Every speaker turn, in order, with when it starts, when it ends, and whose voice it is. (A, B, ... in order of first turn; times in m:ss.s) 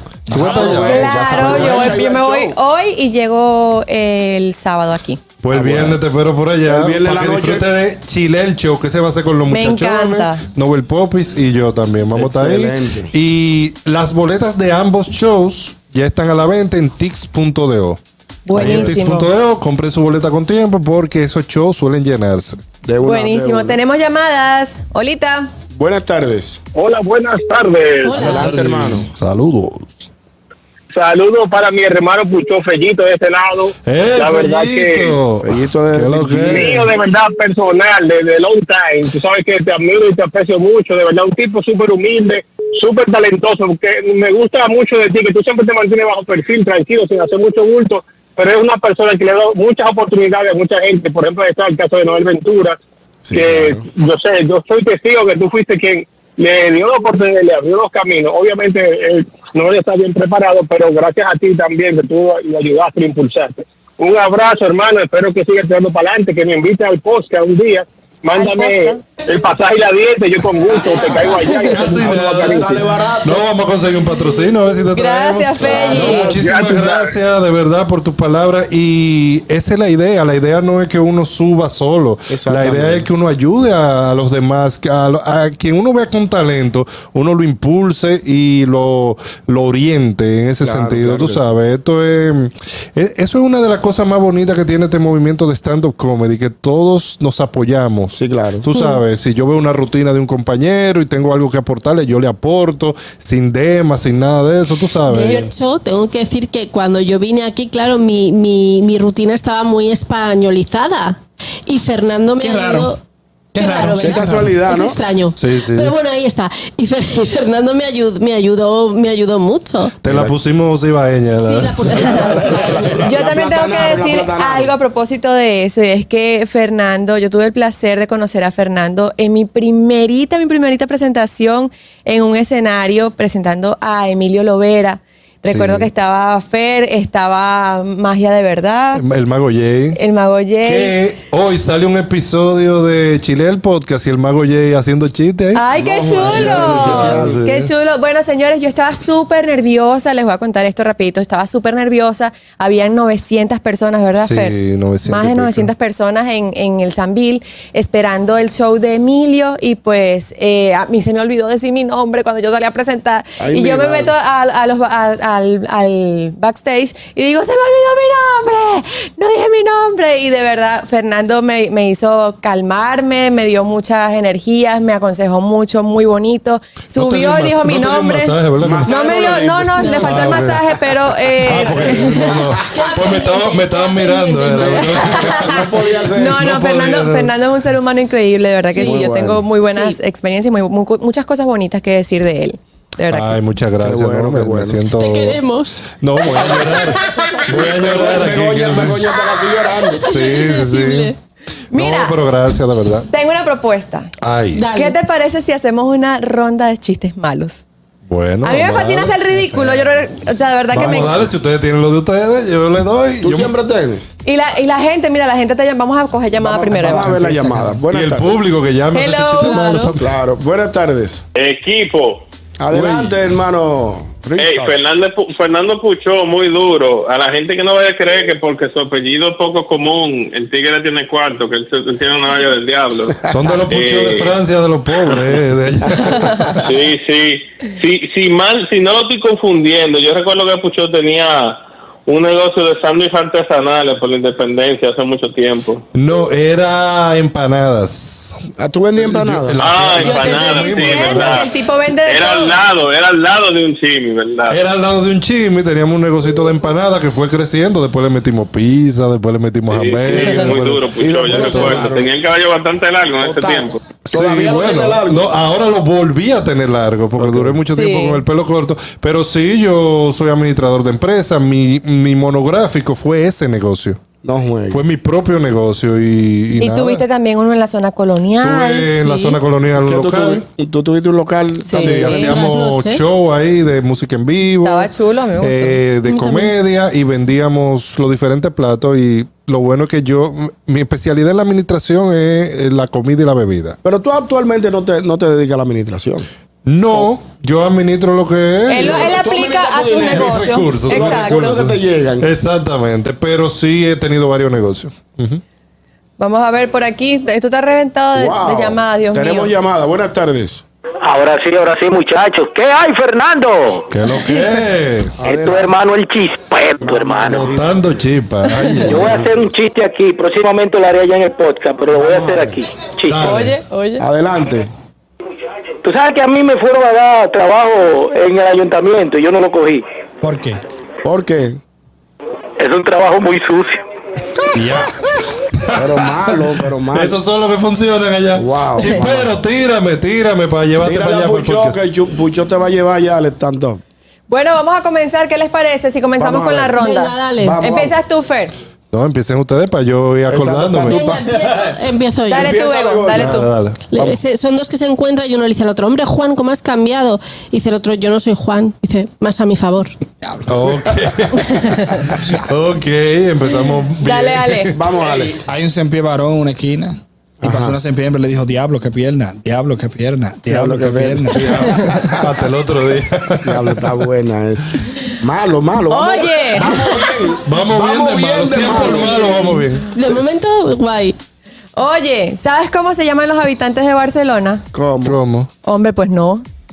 0:00.3-0:01.6 A
0:00.3-0:02.0 B
0:00.3-0:02.6 C
0:00.8-0:05.2 D
0:05.4-0:18.0 B
0:05.5-0:06.0 C
0:06.7-0:07.7 C
0:09.5-0:10.4 D
0:12.2-0:13.1 C
0:18.5-0:19.3 D
0:18.5-0:22.6 B
0:18.6-0:19.0 C
0:22.8-0:23.8 C
0:23.0-0:25.5 D
0:25.7-0:26.6 C
0:26.8-0:28.4 E
0:28.0-0:28.4 F
0:28.1-0:29.1 C
0:28.2-0:30.1 B
0:30.9-0:35.2 E
0:33.8-0:36.9 B
0:35.4-0:36.8 C
0:36.4-0:52.8 E
0:53.2-0:53.8 C
0:53.3-1:12.8 E
1:08.3-1:09.0 D
1:11.4-1:45.5 B
1:12.0-1:13.5 C
1:14.9-1:16.4 D
1:15.6-1:16.4 C
1:16.0-1:17.1 E
1:22.3-1:23.1 C
1:30.6-1:31.5 C
1:38.2-1:38.7 C
1:38.7-1:39.0 F
1:45.1-1:53.0 F
1:52.4-1:53.0 A
1:53.6-1:54.6 A
1:53.6-1:59.9 F
1:54.0-1:55.0 C
1:55.4-1:56.0 B
2:00.0-2:02.0 B
2:00.1-2:00.4 C
2:01.4-2:03.2 F
2:01.9-2:02.4 D
2:01.9-2:04.7 C
2:03.0-2:19.0 D
2:15.5-2:15.9 B
2:19.0-2:20.0 B
2:19.9-2:21.0 D
2:20.6-2:25.6 B
2:25.5-3:02.2 D
2:25.7-2:27.4 C
2:26.2-2:27.7 B
2:34.2-2:35.7 B
2:43.4-2:44.2 C
2:56.9-2:58.9 B
2:58.6-3:00.4 C
2:59.8-3:00.2 F
2:59.9-3:00.6 B
3:01.4-3:05.7 B
3:02.1-3:05.2 F
3:04.5-3:13.4 D
3:04.5-3:06.4 C
3:06.3-3:07.3 B
3:08.7-3:09.1 F
3:08.8-3:09.4 C
3:09.6-3:10.0 F
3:13.1-3:15.4 B
3:13.8-3:14.8 C
3:14.9-3:17.9 F
3:16.0-3:19.0 B
3:17.5-3:20.1 C
3:19.2-3:21.2 F
3:20.0-3:21.1 B
3:21.7-3:22.2 D
3:21.7-3:23.1 B
3:23.1-3:24.1 D
3:24.2-3:24.7 B
3:24.6-3:25.0 F
3:24.7-3:27.6 D
3:28.1-3:30.1 B
3:28.4-3:31.3 D
3:30.7-3:33.5 B
3:30.8-3:31.2 C
3:33.2-3:34.0 C
3:34.2-3:37.2 D
3:36.4-3:38.4 C
3:37.0-3:37.6 A
3:37.9-3:40.1 B
3:38.9-3:39.7 D
3:39.5-3:39.9 F
3:40.0-3:41.2 C
3:41.3-3:42.2 G
3:42.6-3:44.8 C
3:42.7-3:43.0 B
3:44.4-3:54.4 G
3:53.3-3:56.6 B
3:56.6-4:05.8 G
4:05.9-4:08.4 B
4:08.6-4:09.6 C
4:09.0-4:11.5 B
4:09.6-4:11.5 G
4:10.0-4:12.6 D
4:12.0-4:14.6 G
4:14.5-4:21.8 B
4:19.7-4:23.8 G
4:20.1-4:20.3 C
4:21.0-4:22.1 C
4:23.2-4:25.4 C
4:24.0-4:34.0 B
4:27.2-4:27.6 C
4:27.7-4:28.2 D
4:34.2-4:34.8 C
4:34.7-4:37.1 B
4:36.6-4:39.0 D
4:38.4-4:40.4 B
4:39.0-4:39.4 F
4:39.8-4:42.2 C
4:41.6-4:42.4 D
4:41.7-4:53.8 B
4:42.0-4:43.0 F
4:44.6-4:45.8 D
4:46.1-4:46.5 F
4:53.8-4:56.3 C
4:56.7-4:59.2 B
4:58.7-5:01.6 D
4:58.8-5:02.3 C
5:00.1-5:05.4 B
5:06.2-5:09.5 D
5:08.2-5:10.6 C
5:11.0-5:13.8 H
5:13.9-5:15.2 B
5:15.2-5:15.8 C
5:15.2-5:17.6 H
5:16.8-5:17.8 C
5:17.3-5:19.3 B
5:18.8-5:23.3 H
5:18.9-5:19.5 C
5:21.9-5:22.6 C
5:23.1-5:23.6 B
5:23.2-5:24.0 D
5:24.0-5:24.7 C
5:25.8-5:29.8 H
5:30.2-5:30.6 A
5:31.0-5:31.6 C
5:32.6-5:33.8 H
5:34.5-5:41.9 B
5:35.7-5:37.2 C
5:38.4-5:39.4 C
5:38.8-5:39.0 D
5:40.8-5:43.8 C
5:44.3-5:48.5 D
5:46.2-5:46.8 C
5:46.8-5:47.6 F
5:47.4-5:48.0 C
5:48.9-5:51.1 B
5:50.3-5:51.2 C
5:50.8-5:52.6 F
5:51.4-5:51.7 A
5:52.3-5:53.5 D
5:52.3-5:53.4 C
5:53.1-5:53.9 B
5:53.9-6:00.0 F
6:00.2-6:00.6 A
6:00.5-6:04.8 B
6:04.0-6:04.7 D
6:04.7-6:05.4 C
6:05.0-6:12.2 A
6:07.4-6:07.8 C
6:10.5-6:12.2 C
6:12.1-6:13.9 B
6:13.4-6:19.6 C
6:15.9-6:17.0 D
6:17.4-6:19.9 B
6:19.9-6:21.2 F
6:21.8-6:24.6 D
6:24.7-6:25.2 C
6:25.0-6:25.5 B
6:25.6-6:26.4 D